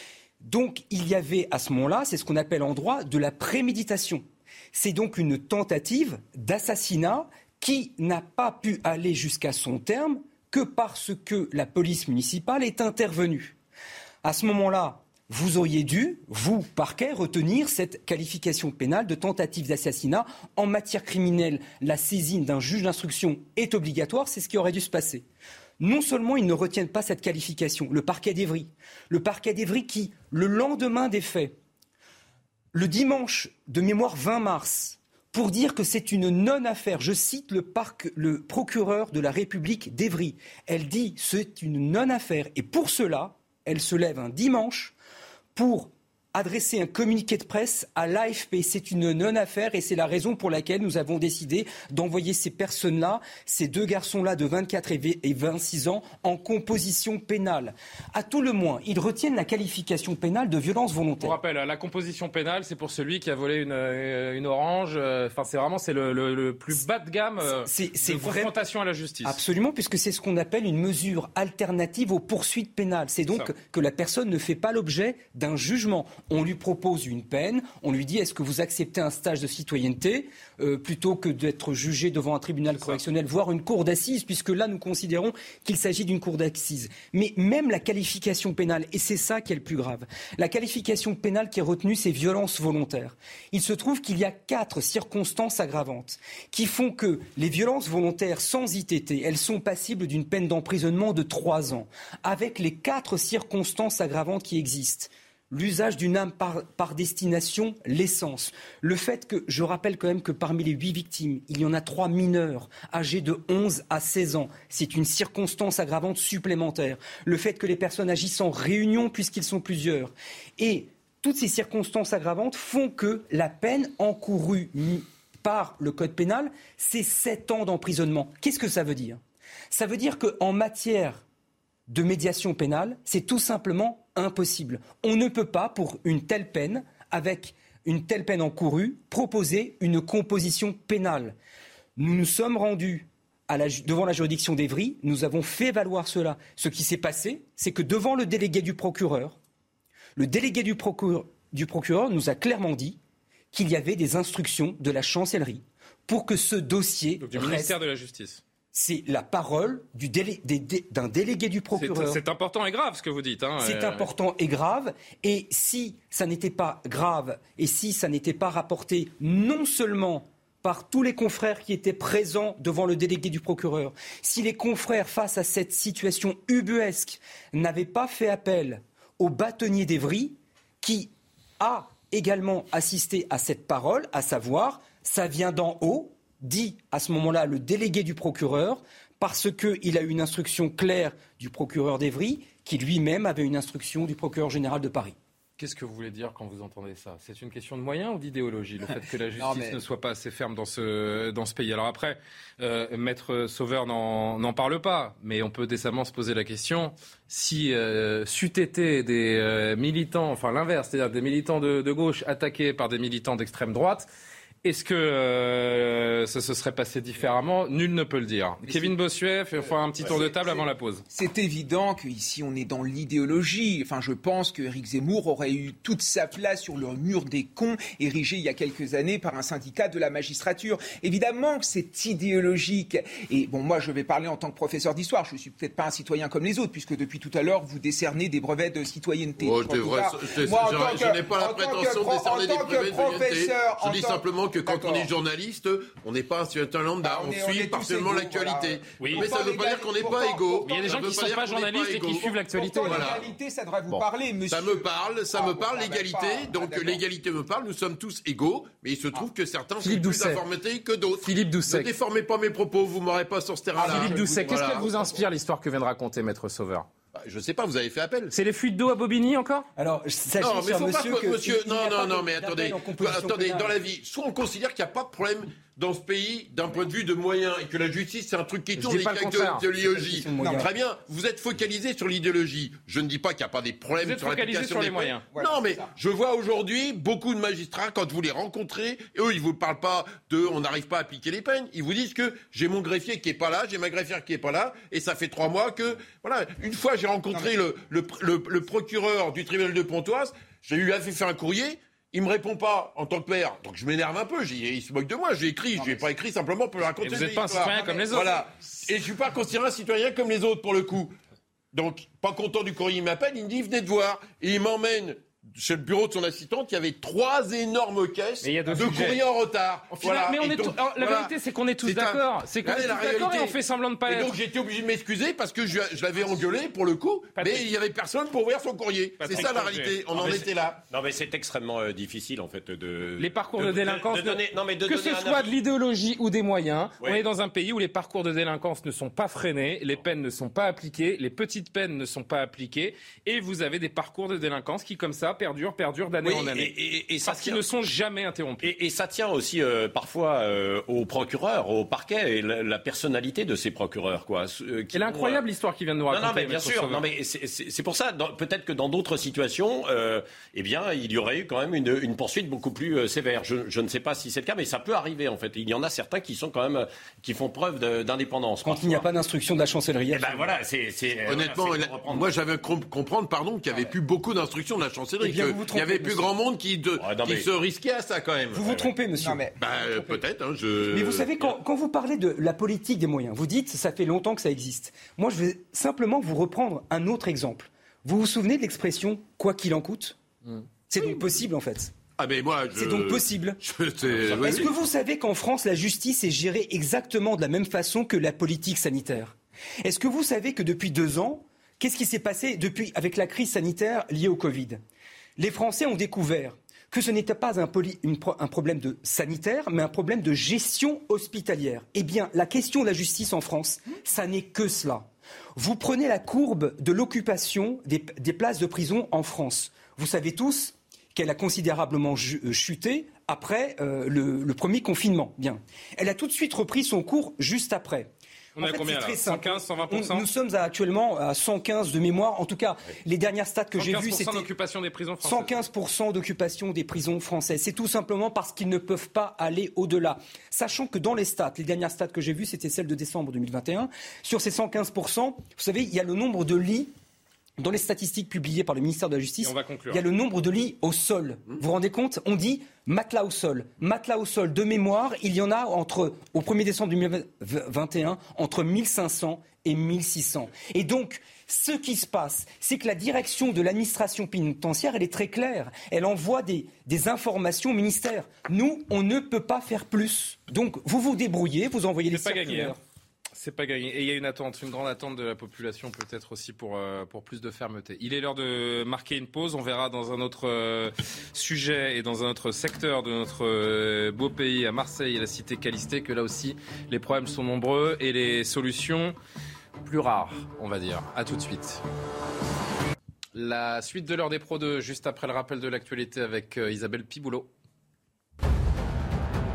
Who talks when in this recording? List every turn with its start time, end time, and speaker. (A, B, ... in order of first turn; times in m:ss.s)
0:00.4-0:13.6 A
0:14.2-0:25.2 A
0:25.8-0:31.6 A
0:32.7-0:44.9 A
0:45.6-1:01.4 A
1:01.2-1:09.4 B
1:07.6-1:08.5 A
1:09.2-2:11.2 A
2:11.9-2:21.4 A
2:22.0-2:29.4 A
2:30.2-2:33.0 A
2:33.5-2:37.8 A
2:37.2-2:38.4 B
2:38.7-2:42.2 A
2:41.8-2:44.1 B
2:43.6-3:15.2 A
3:15.6-3:34.1 B
3:19.4-3:19.8 C
3:34.6-3:41.0 B
3:38.6-3:38.9 C
3:39.6-4:05.1 C
3:59.4-4:13.3 D
4:07.0-4:10.9 C
4:09.0-4:09.3 B
4:10.6-4:13.2 B
4:12.5-4:17.0 C
4:14.5-4:24.9 D
4:19.8-4:20.4 B
4:21.2-4:21.9 B
4:23.8-4:25.2 C
4:23.8-4:26.9 B
4:27.2-4:28.4 D
4:28.3-4:29.7 B
4:29.8-4:33.7 A
4:30.4-5:11.2 D
4:38.8-4:39.6 B
4:39.9-4:40.7 A
4:40.4-4:40.7 C
4:44.0-4:45.2 B
4:45.3-4:45.9 C
5:07.0-5:08.4 B
5:07.8-5:08.4 C
5:11.7-5:30.8 D
5:18.4-5:19.2 B
5:19.9-5:24.3 B
5:27.4-5:27.7 B
5:29.2-5:30.3 B
5:30.1-5:35.5 E
5:33.2-5:48.7 B
5:46.2-5:47.6 E
5:48.6-5:55.4 E
5:54.9-5:57.0 B
5:56.1-6:09.1 E
6:08.6-6:10.5 A
6:10.1-6:12.3 E
6:11.3-6:18.7 D
6:15.2-6:16.3 A
6:17.0-6:17.5 E
6:18.5-6:19.4 A
6:19.2-6:19.6 C
6:19.6-6:21.4 D
6:20.9-6:30.2 A
6:30.9-6:31.9 A
6:32.2-6:34.7 D
6:32.8-6:33.6 A
6:34.2-6:34.7 E
6:34.3-6:44.8 A
6:45.4-7:14.5 A
7:08.6-7:10.3 B
7:13.8-7:15.6 B
7:15.2-7:26.9 A
7:27.6-7:52.8 A
7:29.4-7:30.0 B
7:52.1-7:52.8 B
7:53.4-8:09.2 B
8:09.8-8:11.8 B
8:13.4-8:17.5 B